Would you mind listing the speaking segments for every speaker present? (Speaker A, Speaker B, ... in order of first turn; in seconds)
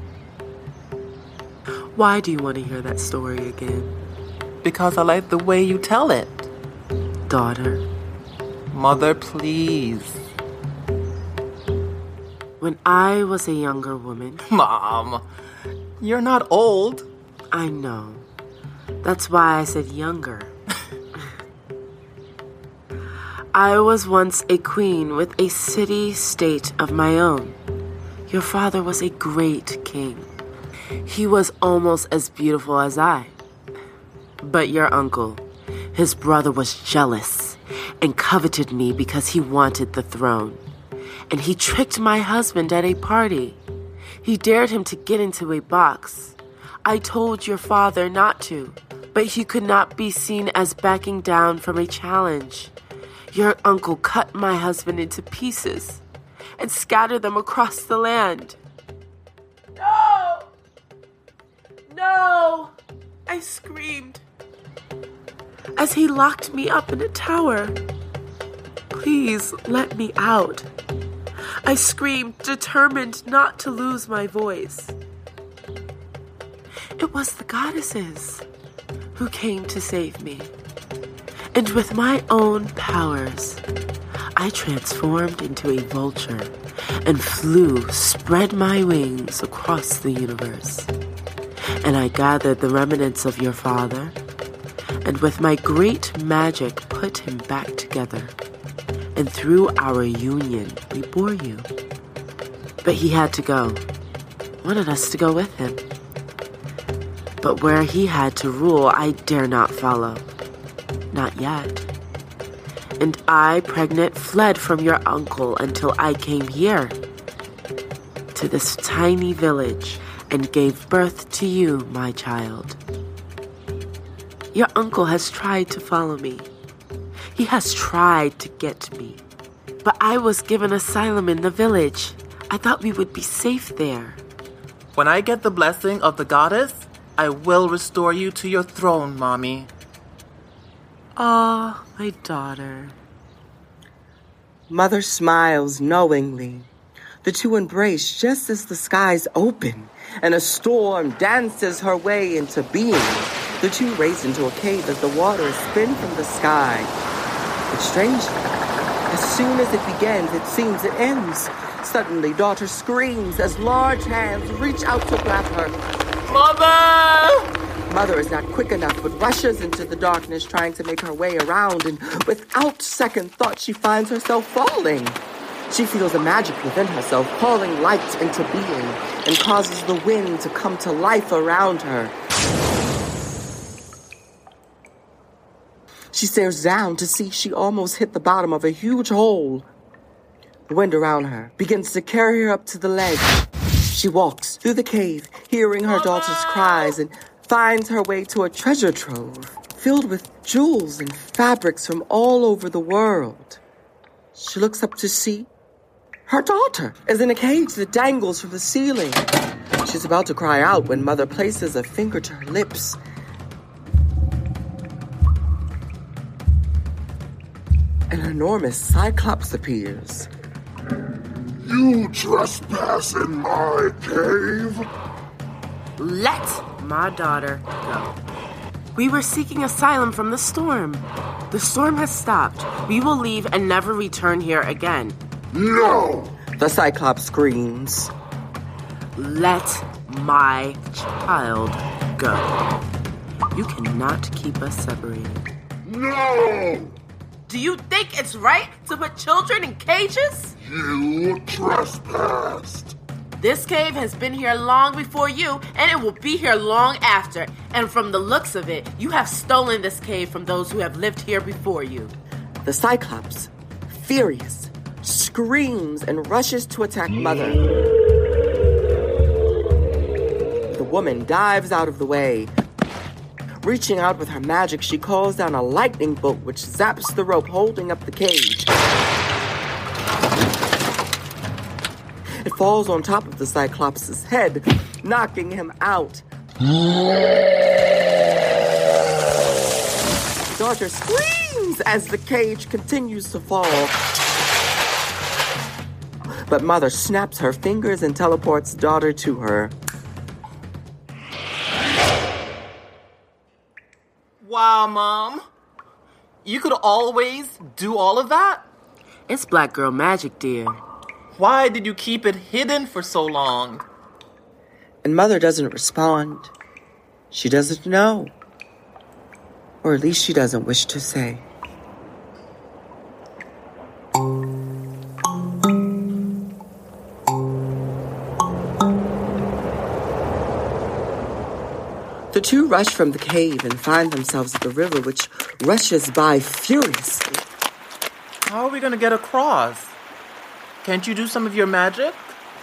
Speaker A: 1.9-4.0, 7.3-7.8, 12.6-14.4, 17.5-18.2, 19.0-20.6, 23.5-27.6, 28.3-30.3, 31.1-33.4, 34.4-40.6, 41.3-43.6, 44.2-52.7, 53.3-56.0, 56.6-58.6, 59.8-60.5, 61.9-62.7, 63.3-64.2, 65.8-67.8, 68.9-70.7, 71.6-75.0, 77.0-78.4, 79.2-80.5, 81.5-83.6, 84.4-90.9, 91.8-94.2, 95.0-98.3, 99.2-101.7, 102.8-103.8, 104.6-105.8, 107.4-110.2, 111.1-111.8, 113.0-117.0, 118.3-122.8, 124.5-126.5, 127.3-129.2, 129.8-134.2, 141.1-143.0, 226.0-228.2, 228.9-235.2, 239.2-242.6, 243.5-245.4, 247.5-250.6, 253.4-262.1, 309.3-310.8
Speaker B: 4.6-6.5, 8.7-10.2, 14.5-15.2, 16.0-17.1, 134.9-139.7, 166.3-167.5, 196.0-196.7, 304.4-305.4, 306.4-308.6, 311.4-313.9, 338.4-339.9, 340.8-342.4
Speaker C: 144.7-146.7, 147.2-156.9, 157.7-158.4, 159.1-165.8, 167.9-182.1, 186.1-189.7, 190.7-193.3, 193.9-203.6, 204.3-205.5, 206.3-209.3, 209.8-213.0, 218.1-220.3, 236.6-238.1, 262.6-267.6, 270.7-272.5, 273.6-278.7, 282.4-286.2, 290.6-294.0, 296.5-299.7, 315.0-316.5, 317.3-318.4, 319.8-321.4, 332.3-337.4
Speaker D: 221.6-224.9, 235.5-236.3, 245.8-246.9, 250.6-252.9